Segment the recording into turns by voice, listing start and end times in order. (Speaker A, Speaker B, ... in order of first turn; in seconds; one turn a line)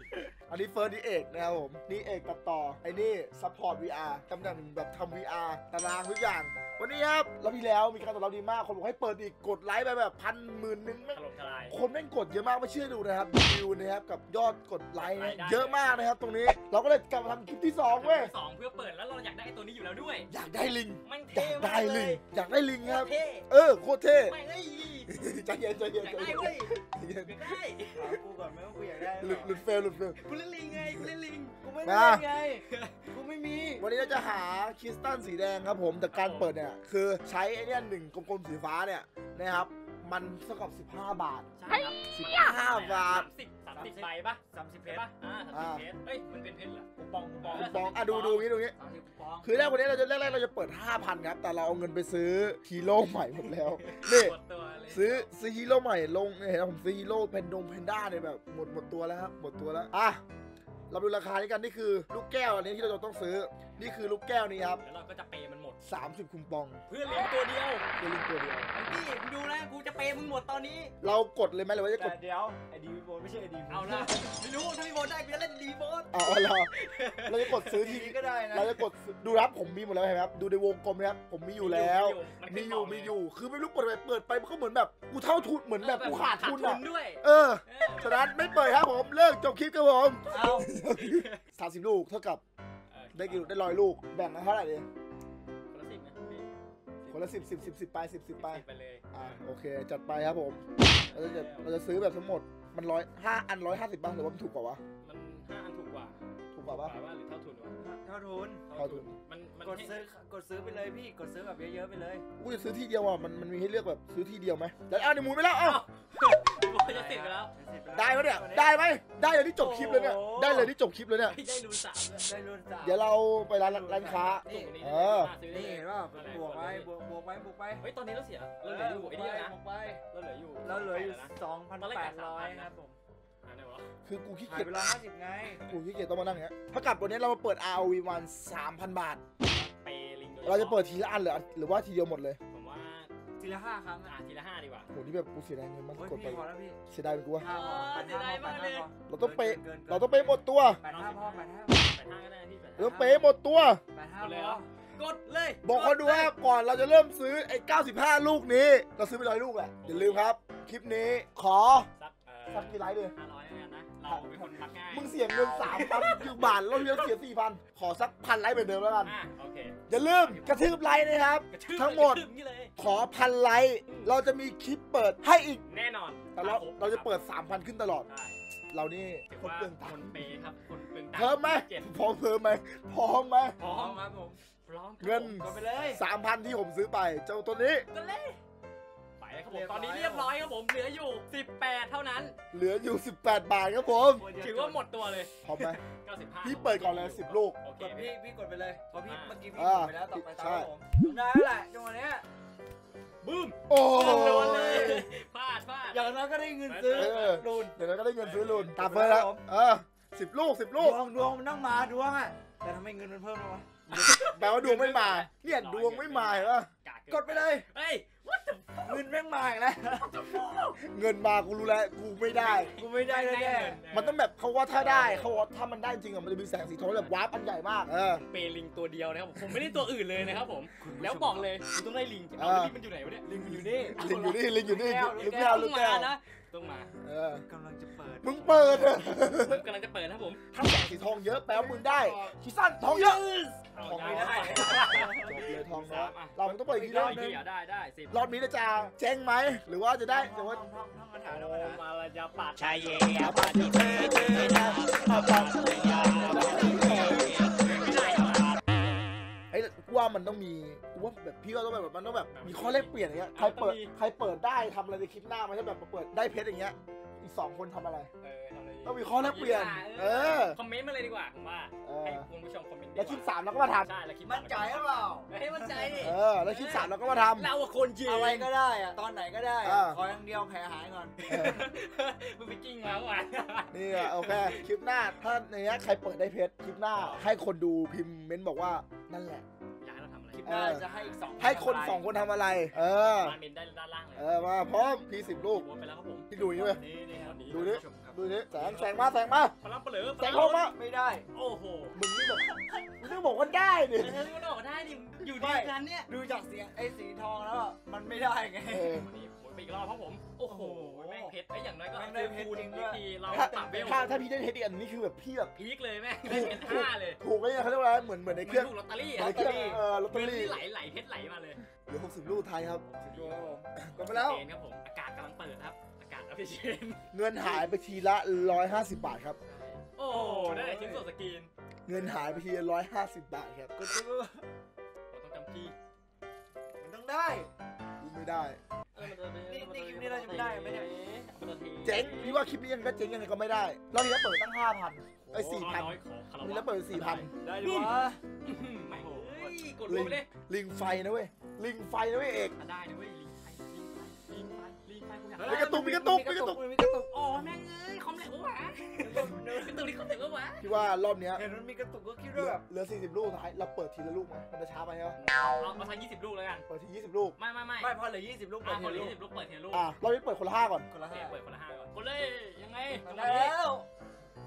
Speaker A: 0.5-18.3
Speaker B: 11.1-11.8
Speaker B: 15.0-16.1
Speaker B: 17.9-20.3
Speaker A: 20.3-24.4
Speaker B: 21.1-22.2
Speaker B: 22.8-23.5
Speaker B: 24.2-25.1
Speaker A: 25.1-27.5
Speaker B: 25.9-26.7
Speaker B: 27.2-28.1
Speaker C: 27.9-29.6
Speaker A: 29.1-30.2
Speaker B: 30.1-31.6
Speaker A: 30.7-31.1
Speaker C: 31.6-33.9
Speaker A: 31.8-32.2
Speaker B: 32.6-33.1
Speaker A: 33.8-41.5
Speaker B: 36.1-36.5
Speaker B: 41.6-46.9
Speaker A: 42.1-43.3
Speaker C: 43.7-45.1
Speaker A: 45.5-45.9
Speaker C: 47.0-47.7
Speaker B: 47.4-48.5
Speaker A: 47.5-48.8
Speaker C: 48.8-49.5
Speaker A: 49.4-54.4
Speaker B: 53.9-55.3
Speaker A: 54.9-60.2
Speaker A: 60.9-64.8
Speaker B: 64.8-65.8
Speaker A: 65.8-66.8
Speaker B: 66.9-67.9
Speaker A: 68.0-68.7
Speaker B: 68.7-70.9
Speaker A: 71.0-72.2
Speaker C: 72.0-74.2
Speaker B: 73.7-77.7
Speaker A: 76.1-76.7
Speaker A: 77.2-92.4
Speaker C: 77.7-78.9
Speaker B: 81.6-83.2
Speaker B: 85.8-88.4
Speaker C: 90.3-90.7
Speaker B: 90.9-91.4
Speaker B: 92.9-93.6
Speaker A: 93.1-94.9
Speaker B: 95.7-96.5
Speaker B: 97.0-97.7
Speaker A: 97.1-104.8
Speaker B: 98.4-99.4
Speaker B: 100.8-101.7
Speaker B: 105.0-107.7
Speaker A: 106.5-107.0
Speaker C: 107.8-108.6
Speaker B: 108.7-110.0
Speaker A: 108.7-109.1
Speaker C: 109.6-112.2
Speaker A: 112.4-115.8
Speaker B: 115.6-117.5
Speaker C: 116.7-118.8
Speaker A: 117.9-121.4
Speaker C: 119.6-120.7
Speaker B: 121.2-122.3
Speaker C: 122.2-124.8
Speaker A: 122.8-125.3
Speaker B: 124.5-126.9
Speaker C: 125.5-127.8
Speaker B: 127.8-129.6
Speaker C: 128.6-130.0
Speaker B: 130.1-132.7
Speaker C: 130.6-133.0
Speaker B: 133.4-133.9
Speaker A: 134.1-134.9
Speaker C: 134.4-135.6
Speaker A: 135.7-139.2
Speaker B: 139.4-140.8
Speaker A: 140.4-142.4
Speaker B: 142.5-143.1
Speaker C: 143.4-144.2
Speaker B: 144.1-144.9
Speaker A: 144.9-147.5
Speaker C: 145.9-146.8
Speaker C: 147.4-152.0
Speaker B: 147.4-148.9
Speaker A: 149.1-150.8
Speaker B: 150.8-153.0
Speaker C: 152.8-153.3
Speaker A: 152.8-153.8
Speaker C: 153.9-154.7
Speaker B: 154.2-156.3
Speaker A: 155.6-161.9
Speaker B: 159.8-160.3
Speaker B: 162.0-167.1
Speaker A: 162.5-163.1
Speaker A: 164.1-169.2
Speaker B: 169.0-170.7
Speaker A: 169.9-172.3
Speaker B: 171.5-172.7
Speaker A: 172.8-175.6
Speaker B: 173.9-174.1
Speaker B: 175.7-177.3
Speaker A: 176.3-178.1
Speaker B: 178.1-178.4
Speaker A: 178.7-180.3
Speaker B: 179.3-181.9
Speaker A: 181.1-183.6
Speaker B: 183.6-184.1
Speaker C: 183.6-184.4
Speaker B: 184.6-185.4
Speaker A: 185.0-187.9
Speaker C: 185.4-186.0
Speaker B: 187.9-188.4
Speaker B: 189.2-192.4
Speaker C: 189.5-190.4
Speaker A: 192.5-194.3
Speaker C: 194.1-194.9
Speaker B: 194.3-198.2
Speaker A: 195.4-195.8
Speaker A: 196.4-197.6
Speaker C: 197.8-202.2
Speaker B: 198.9-199.4
Speaker A: 199.5-200.7
Speaker B: 203.2-206.1
Speaker A: 203.7-205.0
Speaker C: 204.0-205.1
Speaker C: 205.9-207.7
Speaker B: 206.7-207.4
Speaker A: 206.9-211.0
Speaker B: 208.2-208.7
Speaker C: 208.7-209.4
Speaker C: 210.8-214.3
Speaker B: 213.9-219.1
Speaker A: 214.2-216.7
Speaker C: 217.1-217.7
Speaker C: 218.8-220.3
Speaker B: 220.2-220.8
Speaker A: 220.8-222.8
Speaker B: 222.3-224.2
Speaker C: 222.8-223.8
Speaker A: 223.9-228.2
Speaker B: 224.7-225.5
Speaker B: 226.8-227.2
Speaker B: 228.1-233.4
Speaker C: 230.7-231.6
Speaker A: 232.4-232.8
Speaker C: 233.3-235.7
Speaker A: 233.3-236.2
Speaker B: 235.1-236.9
Speaker A: 237.0-237.5
Speaker C: 237.5-238.9
Speaker A: 238.2-239.6
Speaker B: 239.3-240.4
Speaker A: 240.5-243.3
Speaker C: 241.5-242.3
Speaker C: 242.9-245.3
Speaker B: 243.6-248.3
Speaker A: 243.8-247.3
Speaker C: 246.5-247.4
Speaker A: 248.1-250.6
Speaker C: 250.1-251.8
Speaker B: 251.3-258.9
Speaker C: 252.6-255.1
Speaker A: 253.2-258.1
Speaker C: 255.7-258.2
Speaker A: 259.5-268.1
Speaker B: 262.3-263.9
Speaker B: 268.2-273.3
Speaker A: 268.9-270.6
Speaker A: 271.9-272.3
Speaker A: 272.9-273.9
Speaker B: 273.8-278.5
Speaker C: 274.2-276.1
Speaker A: 276.0-277.5
Speaker C: 278.0-281.3
Speaker A: 279.6-280.1
Speaker B: 281.2-284.6
Speaker A: 281.3-281.6
Speaker A: 283.7-289.4
Speaker B: 286.9-287.3
Speaker B: 289.8-291.3
Speaker C: 290.3-292.1
Speaker A: 290.4-290.9
Speaker A: 291.4-293.4
Speaker B: 292.7-294.3
Speaker A: 294.2-295.7
Speaker B: 295.1-296.3
Speaker A: 296.3-296.8
Speaker C: 296.4-298.9
Speaker B: 297.1-297.8
Speaker A: 297.5-299.6
Speaker B: 299.6-300.7
Speaker A: 300.2-300.8
Speaker C: 300.3-301.3
Speaker B: 301.3-302.0
Speaker A: 301.9-302.5
Speaker A: 303.0-304.3
Speaker B: 303.9-306.1
Speaker C: 305.2-309.0
Speaker A: 308.7-309.1
Speaker B: 308.9-314.1
Speaker C: 310.5-311.4
Speaker C: 311.9-314.2
Speaker A: 313.3-315.6
Speaker B: 315.6-317.2
Speaker A: 316.2-320.6
Speaker B: 318.4-321.6
Speaker C: 319.2-319.8
Speaker A: 321.9-322.8
Speaker B: 322.2-323.6
Speaker C: 323.0-324.4
Speaker B: 324.1-327.1
Speaker A: 327.1-329.4
Speaker C: 329.4-331.1
Speaker B: 330.0-331.5
Speaker A: 331.9-333.7
Speaker C: 331.9-332.4
Speaker C: 333.8-334.5
Speaker B: 335.1-335.8
Speaker C: 336.8-337.5
Speaker A: 338.0-338.6
Speaker B: 338.9-342.4
Speaker C: 339.5-340.9
Speaker A: 341.8-347.3
Speaker B: 345.3-350.3
Speaker C: 347.4-348.2
Speaker C: 348.9-349.6
Speaker A: 349.9-352.6
Speaker B: 352.6-355.8
Speaker C: 355.4-357.4
Speaker A: 355.4-356.6
Speaker B: 357.1-360.7
Speaker C: 359.0-359.9
Speaker A: 360.6-361.4
Speaker C: 361.3-362.6
Speaker A: 362.4-365.2
Speaker B: 365.2-366.7
Speaker A: 366.7-367.4
Speaker B: 367.4-368.0
Speaker C: 367.8-369.2
Speaker B: 368.6-370.0
Speaker A: 369.7-370.9
Speaker C: 370.9-371.4
Speaker B: 371.0-373.6
Speaker C: 373.0-373.9